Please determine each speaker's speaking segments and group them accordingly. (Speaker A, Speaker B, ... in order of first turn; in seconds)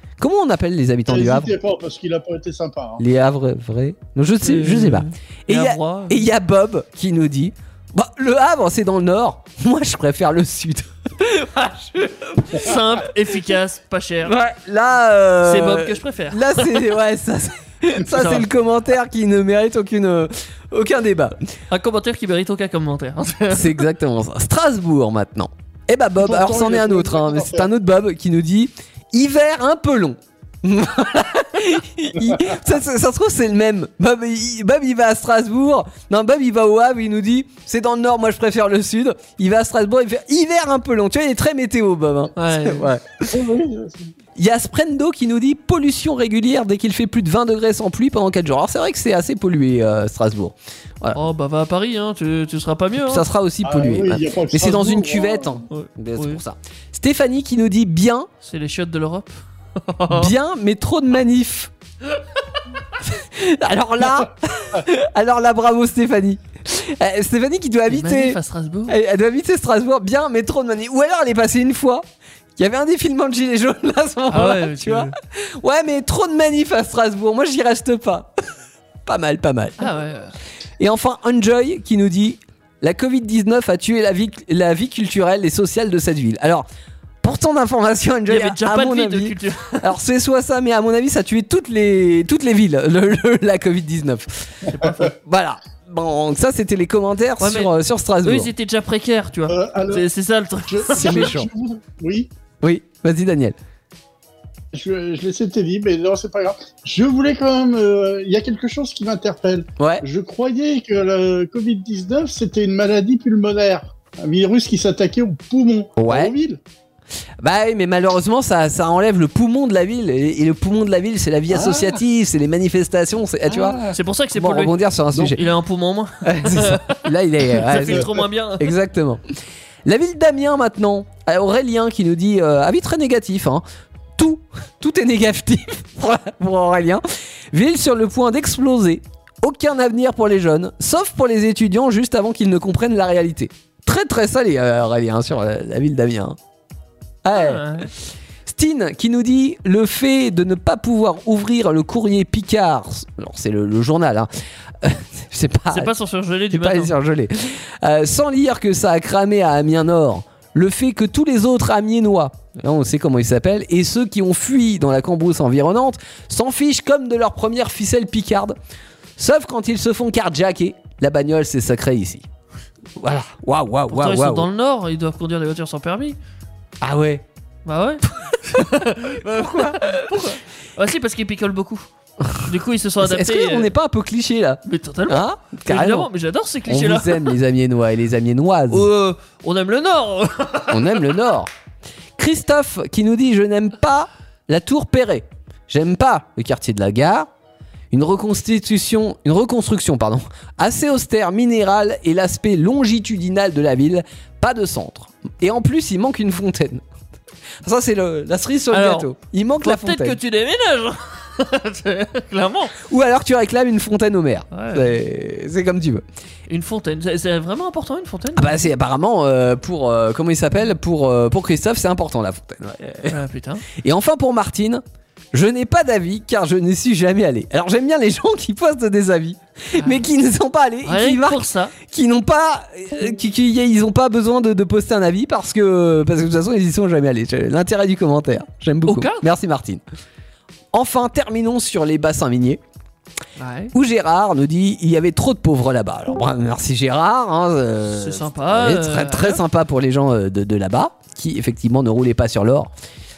Speaker A: 0.2-1.5, 3.0-12.8, 14.2-21.4, 23.5-43.4, 44.4-51.2, 53.0-58.3, 60.1-61.7, 63.0-72.0, 72.6-78.5, 79.1-79.9, 80.8-86.7, 87.2-98.5, 100.9-101.5, 102.6-103.6, 109.8-110.0, 116.0-116.3, 117.4-123.8, 124.3-125.5, 126.2-129.2, 129.8-133.6, 134.2-146.4, 147.2-147.9, 148.5-154.3, 154.8-155.9, 156.5-168.6, 169.2-172.3, 173.0-174.5, 176.8-177.2, 178.3-180.3, 183.0-186.1, 186.7-188.9, 190.7-191.5, 192.2-197.3, 197.9-206.8, 207.6-210.2, 212.8-216.0, 218.3-223.2, 223.7-239.8, 240.7-242.6, 243.7-252.7
Speaker B: 1.1-3.0, 26.2-27.7, 43.3-44.1, 53.6-55.6, 99.5-100.1, 100.7-102.3, 104.7-116.6, 123.6-123.9
Speaker C: 4.4-6.3, 12.5-14.4, 15.4-16.9, 18.1-18.5, 21.7-23.8, 42.4-42.9, 51.1-53.3, 55.7-56.4, 58.4-60.3, 67.9-69.0, 74.3-75.1, 79.8-80.3, 88.3-89.9, 94.7-95.1, 97.4-97.7, 98.2-101.3, 123.9-128.7, 147.3-147.9, 155.7-156.9, 173.9-176.2, 177.7-183.7, 184.6-187.4, 188.7-191.2, 208.7-212.8, 214.5-214.9, 216.5-218.6, 223.1-223.7, 229.7-230.0, 230.8-231.8, 238.9-239.3, 243.4-243.7, 247.9-249.4